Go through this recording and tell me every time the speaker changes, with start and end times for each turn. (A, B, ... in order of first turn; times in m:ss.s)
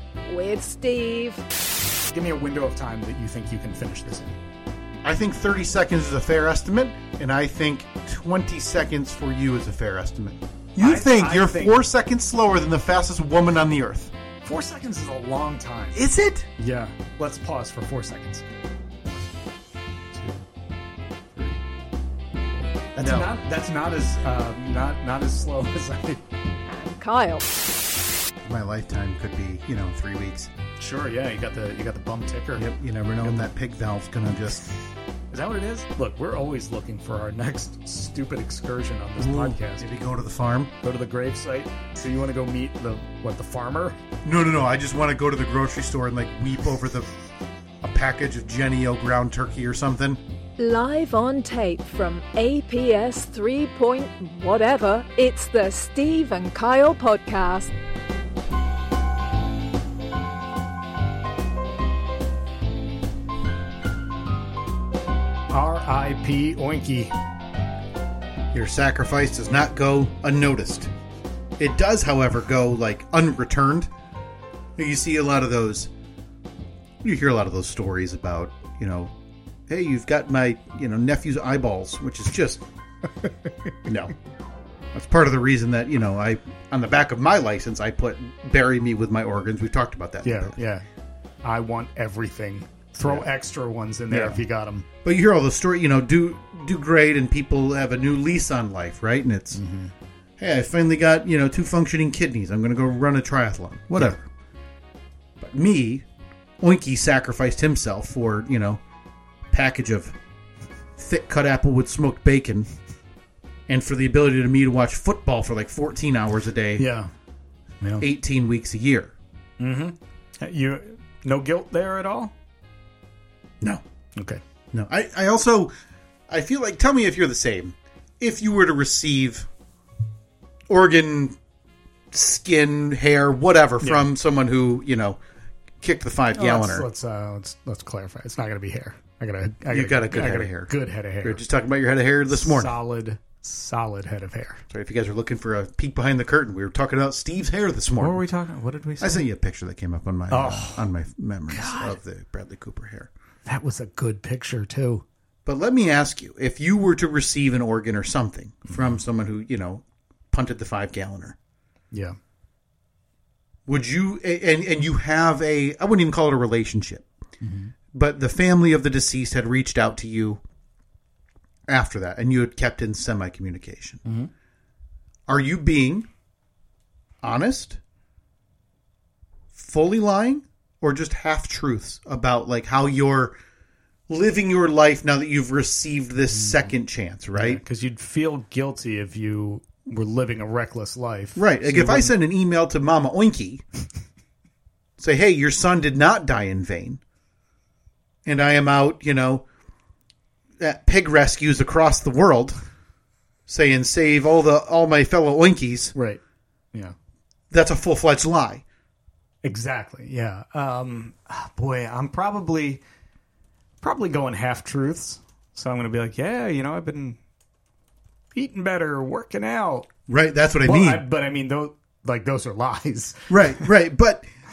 0:00.3-0:01.4 A
0:02.1-0:04.4 B
0:05.0-0:14.1 C
0:10.8-0:11.8 B
0:14.4-0:16.0 B
0:15.9-0:16.5 C
0:16.6-0:18.4 B
0:20.1-0:20.4 B
0:23.0-0:23.3 C
0:23.0-0:26.2 B
0:26.7-0:27.4 A
0:28.4-0:30.5 C
0:30.8-0:32.7 B
0:32.6-0:34.7 C
0:33.2-0:33.5 B
0:35.3-0:39.8 B
0:39.2-0:40.7 C
0:40.8-0:44.0 B
0:44.2-0:47.1 C
0:47.8-0:50.2 C
0:50.6-0:57.7 A
1:05.5-1:07.1 B
1:08.5-1:10.9 C
1:11.6-1:13.9 C
1:14.8-1:15.9 C
1:17.0-1:19.1 C
1:19.7-1:22.6 C
1:23.9-1:24.1 C
1:24.9-1:30.6 C
1:30.2-1:30.8 B
1:31.4-1:34.9 B
1:33.0-1:33.3 C
1:34.1-1:34.4 C
1:35.0-1:39.6 C
1:39.6-1:39.9 B
1:40.4-1:44.3 C
1:45.4-1:46.0 C
1:46.6-1:48.8 C
1:49.5-1:50.2 C
1:51.0-1:52.7 C
1:53.7-1:56.9 C
1:56.8-1:57.1 B
1:57.8-1:58.1 B
1:58.0-1:59.1 C
1:59.6-2:02.3 B
2:04.2-2:04.4 B
2:04.7-2:05.7 C
2:06.3-2:09.5 C
2:10.7-2:11.4 C
2:12.1-2:15.2 C
2:15.8-2:16.9 C
2:16.4-2:21.4 B
2:19.7-2:20.7 C
2:21.2-2:22.7 C
2:22.3-2:24.6 B
2:24.7-2:28.2 C
2:28.0-2:29.2 B
2:29.0-2:33.1 C
2:30.3-2:30.9 B
2:31.5-2:32.0 B
2:33.5-2:35.0 B
2:35.5-2:41.4 C
2:41.9-2:42.2 B
2:43.7-2:47.1 C
2:47.4-2:47.7 B
2:47.9-2:50.4 C
2:51.7-2:54.0 C
2:55.3-2:56.1 C
2:57.2-2:57.8 C
2:59.5-3:03.4 C
3:04.1-3:07.6 C
3:06.3-3:06.6 B
3:07.3-3:12.1 B
3:11.4-3:13.6 C
3:15.0-3:17.0 C
3:18.3-3:19.4 C
3:20.6-3:22.6 C
3:23.5-3:25.9 C
3:26.0-3:26.2 B
3:27.5-3:28.6 C
3:29.4-3:32.8 B
3:33.8-3:37.2 B
3:38.4-3:39.9 B
3:40.1-3:41.0 C
3:40.6-3:43.7 B
3:43.3-3:44.3 C